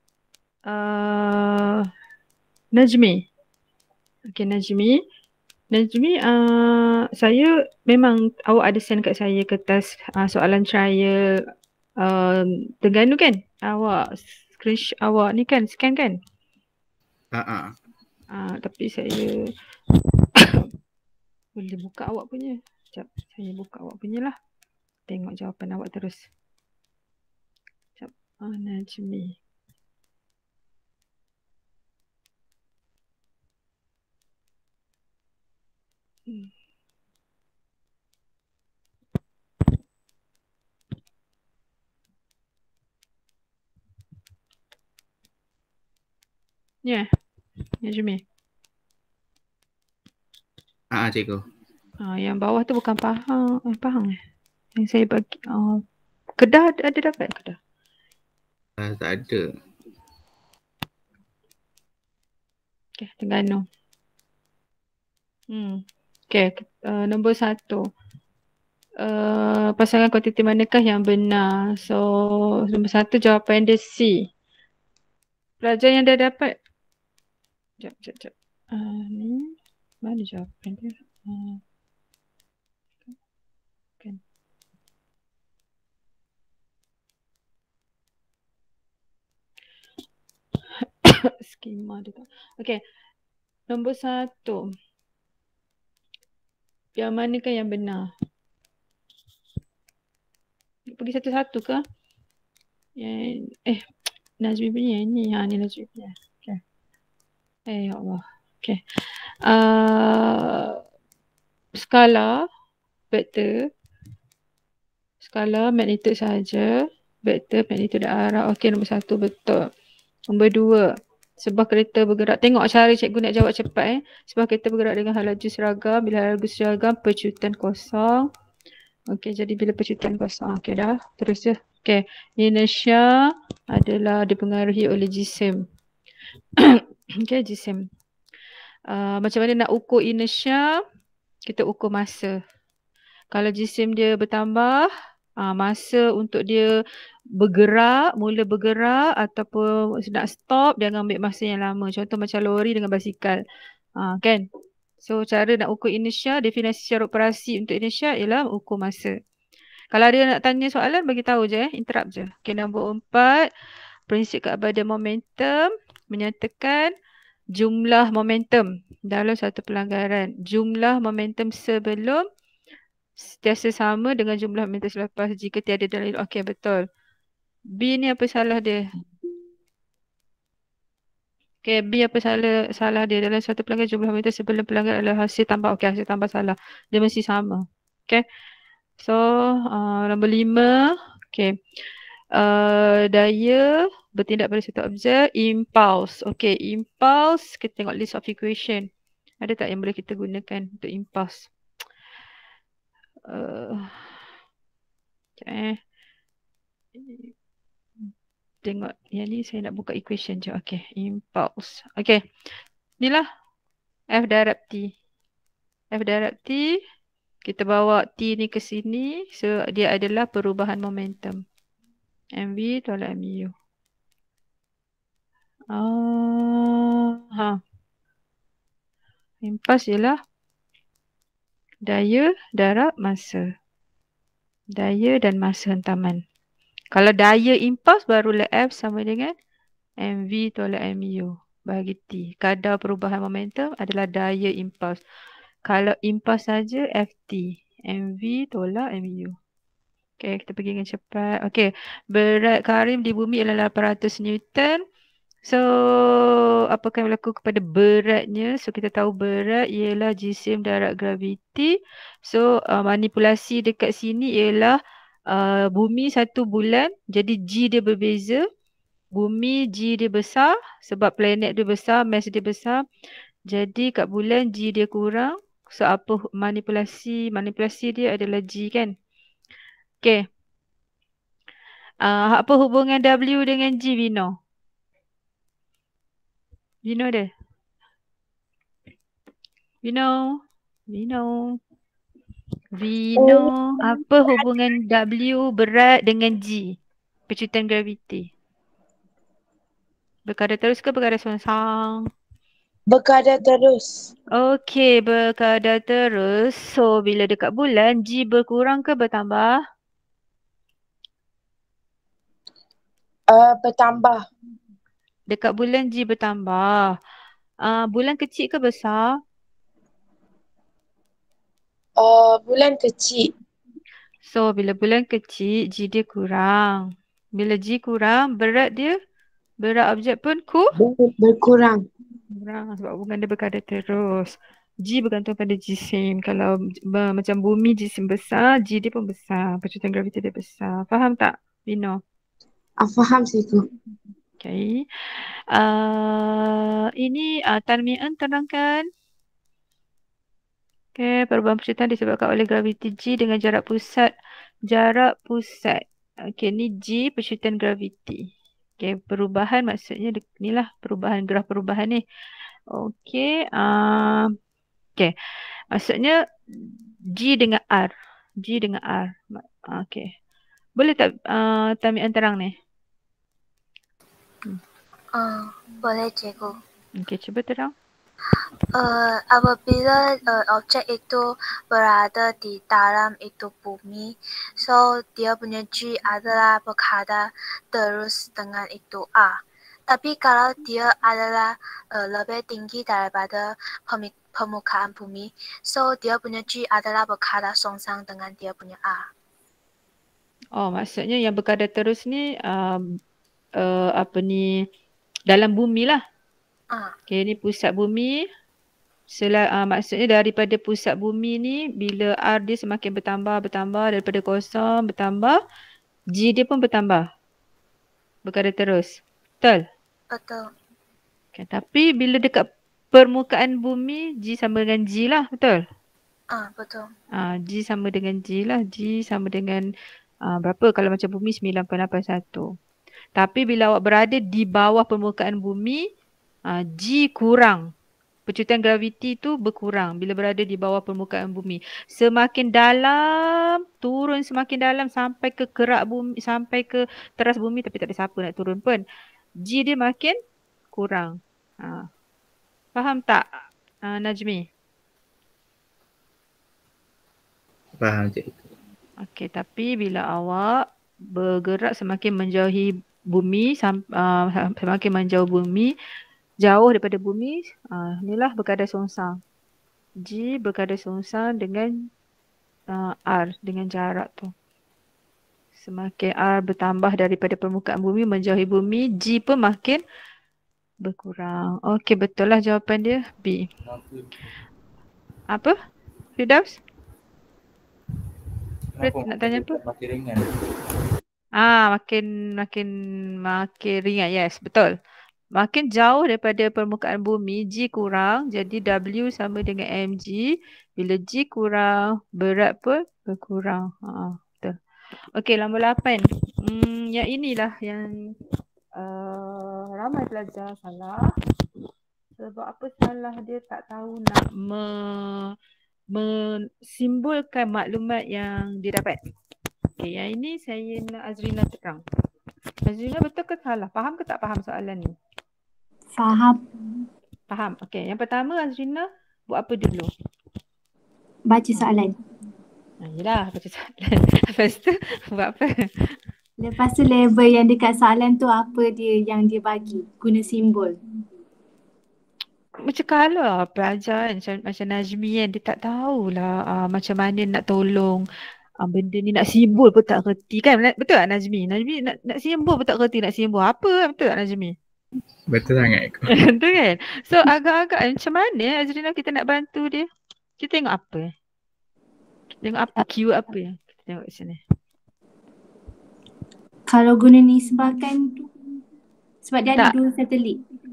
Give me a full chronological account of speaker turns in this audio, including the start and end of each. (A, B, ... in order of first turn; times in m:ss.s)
0:00.7-0:01.8 A
0:02.7-0:03.3 A
0:04.3-0:05.0 A
0:05.7-0:11.2 A
0:12.0-0:16.2 A
0:17.3-0:17.7 B
0:18.3-0:19.3 A
0:21.6-0:24.4 A
0:25.1-0:26.3 A
0:28.0-0:29.4 A
0:47.8-0:48.2 A
0:50.9-0:51.4 B
0:52.0-0:54.2 A
0:54.8-0:55.8 A
0:56.4-0:57.6 A
0:58.8-0:59.4 B
1:03.0-1:03.6 A
1:05.5-1:05.8 A
1:06.3-1:07.8 A
1:09.0-1:14.2 A
1:15.6-1:16.5 A
1:17.8-1:19.5 A
1:20.0-1:21.6 A
1:31.0-1:32.8 A
1:33.7-1:34.6 A
1:37.0-1:38.1 A
1:40.9-1:41.8 A
1:43.0-1:43.8 A
1:44.4-1:46.6 A
1:47.7-1:48.8 A
1:49.4-1:50.8 A
1:51.8-1:52.3 A
1:53.1-1:53.5 A
1:55.2-1:56.7 A
1:57.2-1:59.6 A
2:00.3-2:00.8 A
2:01.4-2:08.3 A
2:09.1-2:13.1 A
2:13.7-2:15.6 A
2:16.6-2:17.8 A
2:18.9-2:20.7 A
2:21.5-2:22.3 A
2:23.3-2:24.9 A
2:25.4-2:26.7 A
2:27.4-2:33.4 A
2:34.0-2:34.4 A
2:35.0-2:39.1 A
2:39.9-2:43.5 A
2:44.1-2:46.9 A
2:47.5-2:52.2 A
2:53.2-2:56.8 A
2:57.8-2:58.8 A
3:01.6-3:08.2 A
3:09.0-3:10.8 A
3:12.3-3:18.9 A
3:19.4-3:21.5 A
3:23.3-3:24.1 A
3:25.4-3:25.8 A
3:27.0-3:27.3 A
3:28.6-3:32.2 A
3:34.1-3:34.9 A
3:35.9-3:36.8 A
3:37.4-3:41.4 A
3:42.4-3:43.5 A
3:45.7-3:47.6 A
3:49.4-3:50.2 A
3:51.8-3:53.5 A
3:54.7-3:56.2 A
3:56.9-3:59.3 A
4:00.0-4:05.0 A
4:05.6-4:09.4 A
4:10.2-4:14.8 A
4:15.4-4:24.8 A
4:25.3-4:28.4 A
4:29.2-4:32.8 A
4:33.5-4:38.9 A
4:42.0-4:44.3 A
4:46.8-4:47.3 A
4:49.8-4:50.2 A
4:50.9-4:51.6 A
4:52.7-4:56.8 A
4:53.2-4:53.9 C
4:57.3-4:58.3 A
5:00.2-5:02.0 A
5:02.9-5:04.1 C
5:04.3-5:09.5 A
5:13.3-5:14.2 C
5:15.3-5:16.7 A
5:17.6-5:19.1 A
5:22.0-5:23.3 C
5:24.2-5:28.9 A
5:29.6-5:30.7 A
5:30.8-5:31.8 C
5:32.4-5:42.0 A
5:42.8-5:43.6 C
5:44.4-5:44.8 A
5:45.5-5:48.8 A
5:51.0-5:54.1 A
5:54.7-5:55.8 A
5:56.4-5:58.2 A
5:58.8-6:02.0 A
6:02.7-6:04.3 A
6:05.7-6:10.1 A
6:10.8-6:12.5 A
6:15.1-6:16.5 D
6:17.0-6:17.7 A
6:18.7-6:39.0 D
6:40.6-6:42.8 A
6:43.6-6:44.5 A
6:45.3-6:46.0 A
6:47.1-6:48.2 A
6:49.1-6:55.4 A
6:56.2-6:57.0 A
6:58.2-6:59.6 A
7:00.1-7:00.4 D
7:01.4-7:05.6 A
7:06.3-7:06.9 D
7:07.2-7:09.6 A
7:10.3-7:12.4 A
7:13.2-7:15.8 A
7:16.5-7:17.6 A
7:18.3-7:28.8 A
7:29.4-7:30.2 A
7:30.7-7:31.9 A
7:32.8-7:34.4 A
7:37.8-7:38.5 B
7:39.0-7:40.5 A
7:41.1-7:45.7 A
7:46.4-7:49.2 A
7:50.0-7:51.7 A
7:52.7-7:54.3 A
7:55.6-7:59.8 A
8:00.8-8:03.4 A
8:03.6-8:04.1 B
8:06.2-8:06.6 A
8:08.7-8:10.3 B
8:08.8-8:09.6 A
8:11.4-8:12.7 A
8:13.2-8:14.7 A
8:15.4-8:24.5 A
8:25.2-8:27.9 A
8:28.8-8:31.1 A
8:32.2-8:35.3 A
8:35.9-8:39.0 A
8:39.8-8:41.8 A
8:42.6-8:44.9 A
8:45.9-8:46.4 E
8:47.3-8:49.9 A
8:51.3-8:51.9 E
8:52.8-8:55.9 A
8:56.4-9:00.8 E
9:02.6-9:08.0 A
9:08.6-9:14.5 A
9:15.3-9:16.1 B
9:16.2-9:19.8 A
9:20.4-9:21.1 A
9:22.4-9:24.4 A
9:26.7-9:28.3 E
9:29.2-9:30.4 E